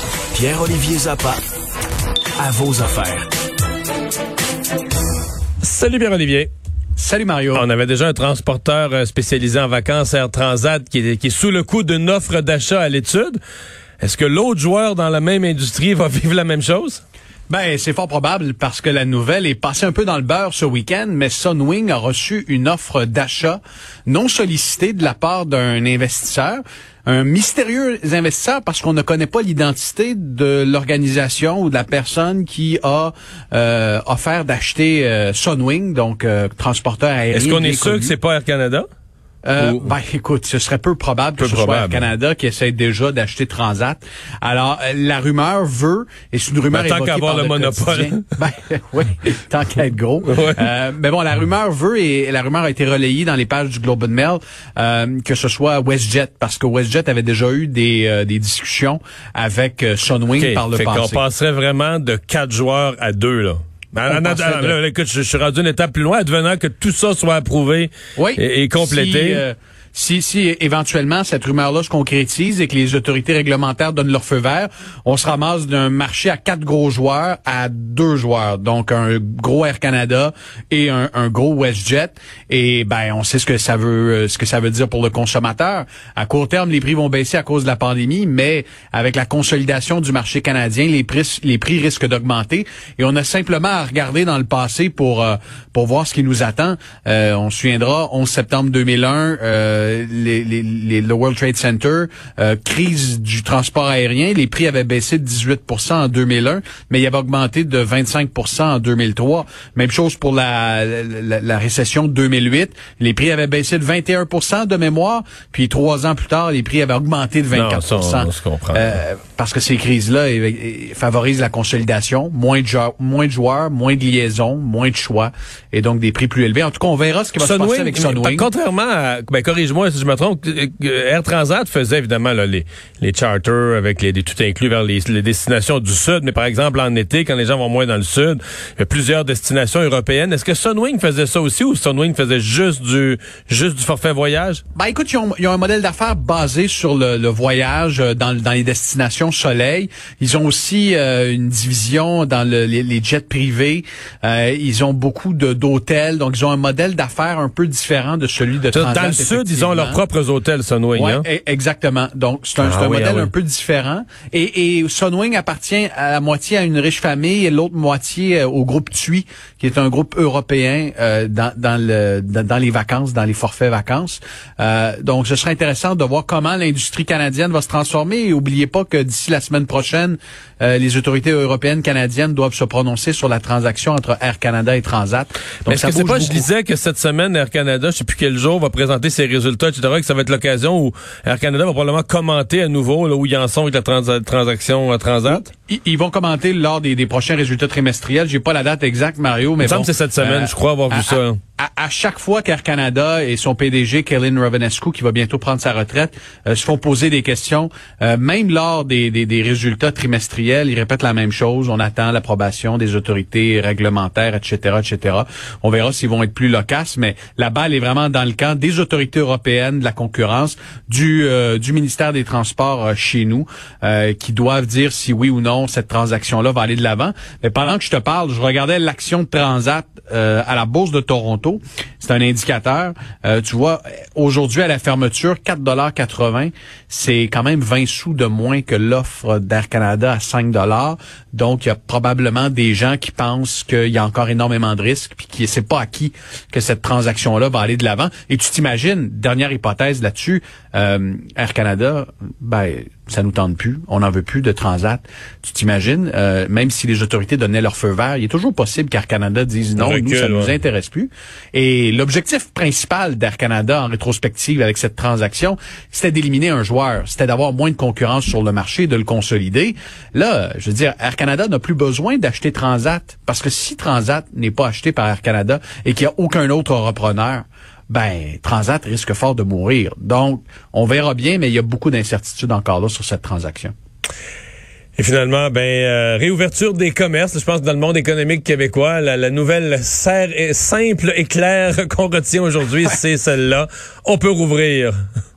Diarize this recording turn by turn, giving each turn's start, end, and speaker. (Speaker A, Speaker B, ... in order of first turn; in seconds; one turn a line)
Speaker A: 0.3-1.4
Speaker A: 2.4-3.2
Speaker B: 5.6-6.5
Speaker C: 7.0-7.6
Speaker B: 7.5-13.4
Speaker B: 14.0-17.0
Speaker C: 17.5-38.1
Speaker B: 37.3-38.9
Speaker C: 39.4-61.2
Speaker B: 39.6-39.9
Speaker B: 41.4-42.1
Speaker B: 46.7-48.3
Speaker B: 50.3-50.7
Speaker B: 60.4-69.4
Speaker C: 64.1-64.8
Speaker C: 68.2-128.5
Speaker B: 117.5-119.0
Speaker B: 127.4-144.6
Speaker C: 144.7-160.0
Speaker B: 158.7-161.2
Speaker C: 160.9-186.5
Speaker B: 162.6-163.3
Speaker B: 185.7-195.5
Speaker C: 195.3-283.7
Speaker B: 199.6-201.4
Speaker B: 259.8-260.5
Speaker B: 285.0-294.9